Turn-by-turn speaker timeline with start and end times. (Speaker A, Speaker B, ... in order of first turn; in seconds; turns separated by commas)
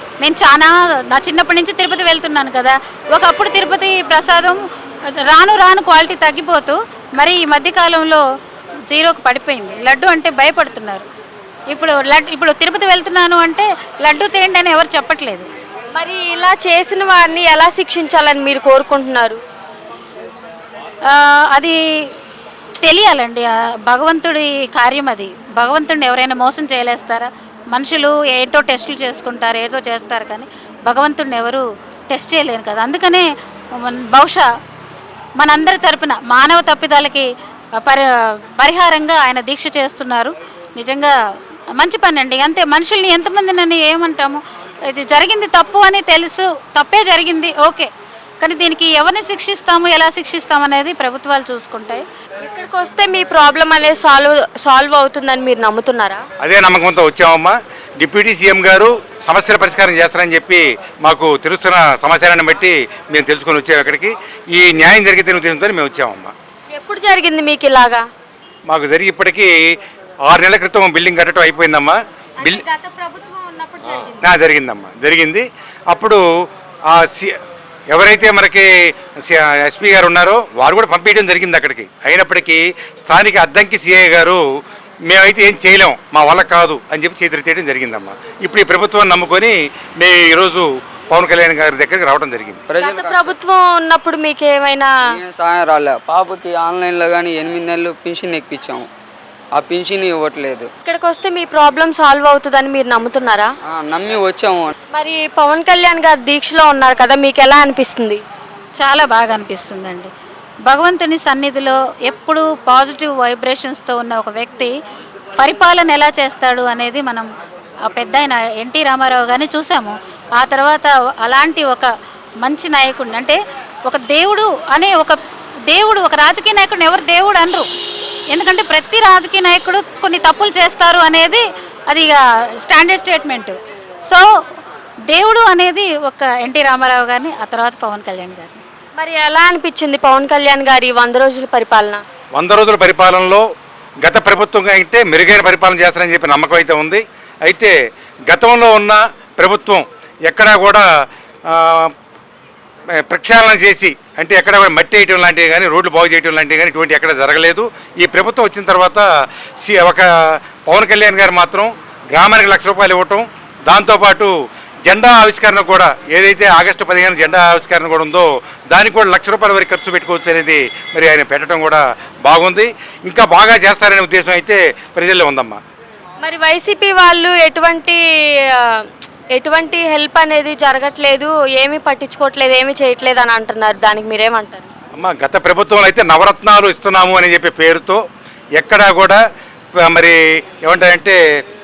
Speaker A: 0.2-4.6, Speaker A: 5.2-8.2, Speaker A: 8.9-11.0, Speaker A: 11.7-15.5, Speaker B: 15.9-19.4, Speaker A: 21.1-21.8, Speaker A: 22.8-34.5, Speaker A: 35.4-41.1, Speaker A: 41.8-47.9, Speaker A: 48.4-52.0, Speaker B: 52.4-56.2, Speaker C: 56.4-66.3, Speaker B: 66.7-68.0, Speaker C: 68.7-69.5, Speaker C: 70.3-72.6, Speaker B: 72.4-74.2, Speaker C: 74.2-76.2, Speaker C: 76.9-77.3, Speaker C: 77.9-78.7, Speaker C: 79.2-84.4, Speaker C: 85.1-92.6, Speaker D: 92.7-93.4, Speaker B: 92.8-94.9, Speaker D: 95.0-98.9, Speaker D: 99.5-100.7, Speaker B: 100.8-103.5, Speaker D: 103.7-104.7, Speaker B: 104.9-108.2, Speaker A: 108.8-110.1, Speaker A: 110.7-114.7, Speaker A: 115.4-117.3, Speaker A: 117.8-121.9, Speaker A: 122.4-125.2, Speaker A: 125.7-127.7, Speaker A: 128.3-134.3, Speaker A: 135.1-138.6, Speaker B: 138.9-142.0, Speaker C: 142.3-143.4, Speaker C: 144.0-147.7, Speaker C: 148.3-150.8, Speaker C: 151.5-151.9, Speaker C: 153.1-159.0, Speaker C: 159.6-164.3, Speaker C: 164.8-175.6, Speaker B: 176.2-184.7, Speaker C: 185.0-188.0, Speaker C: 188.6-189.2, Speaker C: 189.8-191.2